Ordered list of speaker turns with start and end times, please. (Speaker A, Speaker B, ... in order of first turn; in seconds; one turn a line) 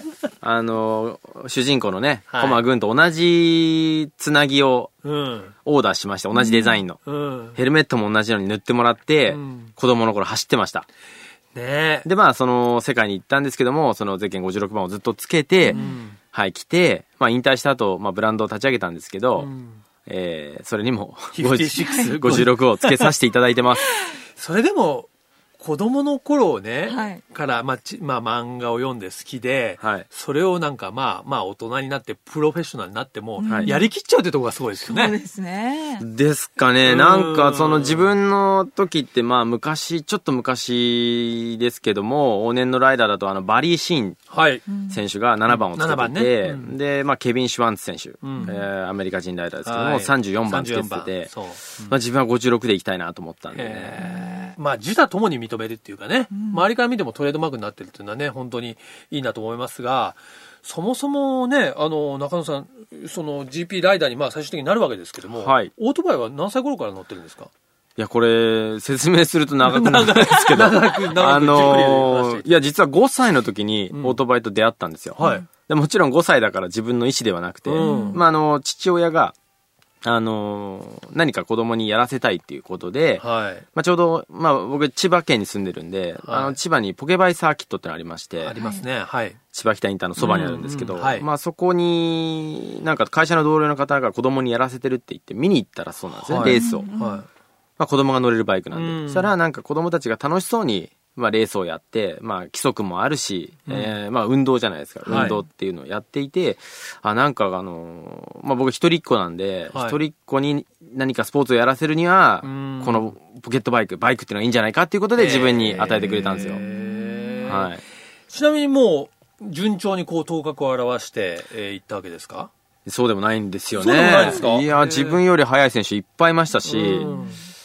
Speaker A: 0.4-4.9
Speaker B: 2.3-2.6
Speaker B: 5.0-5.5
Speaker A: 5.7-7.0
Speaker C: 6.3-6.8
Speaker B: 7.0-7.6
Speaker A: 7.5-10.8
Speaker B: 9.3-9.7
Speaker B: 11.5-12.1
Speaker A: 12.0-19.5
Speaker B: 15.7-16.2
Speaker B: 19.4-19.8
Speaker A: 20.1-23.9
Speaker B: 21.3-23.1
Speaker B: 24.4-35.1
Speaker C: 26.9-27.2
Speaker A: 29.8-30.1
Speaker C: 33.4-33.9
Speaker A: 33.5-33.7
Speaker C: 34.8-36.0
Speaker A: 36.0-44.2
Speaker B: 36.8-38.1
Speaker B: 44.3-44.6
Speaker C: 44.7-45.0
Speaker A: 44.9-51.3
Speaker B: 45.5-46.8
Speaker B: 48.2-48.5
Speaker B: 49.6-52.0
Speaker A: 51.9-54.0
Speaker B: 53.5-67.5
Speaker C: 54.0-54.5
Speaker C: 56.3-56.6
Speaker A: 65.3-65.7
Speaker A: 68.0-79.3
Speaker B: 69.6-72.5
Speaker B: 73.9-74.2
Speaker B: 75.2-75.4
Speaker C: 75.2-75.4
Speaker B: 77.7-78.2
Speaker C: 77.8-78.2
Speaker A: 80.0-83.2
Speaker B: 83.2-83.6
Speaker A: 83.7-88.5
Speaker B: 86.2-86.6
Speaker B: 88.4-89.4
Speaker A: 89.5-96.9
Speaker B: 90.2-91.3
Speaker B: 96.2-97.3
Speaker C: 96.4-97.2
Speaker A: 97.8-116.6
Speaker B: 98.7-99.3
Speaker B: 103.7-103.9
Speaker B: 105.0-105.4
Speaker B: 109.7-110.0
Speaker B: 112.4-113.1
Speaker B: 115.2-117.7
Speaker C: 116.6-117.5
Speaker A: 117.5-117.8
Speaker B: 118.3-122.5
Speaker A: 122.8-127.1
Speaker B: 123.7-125.2
Speaker B: 126.7-127.4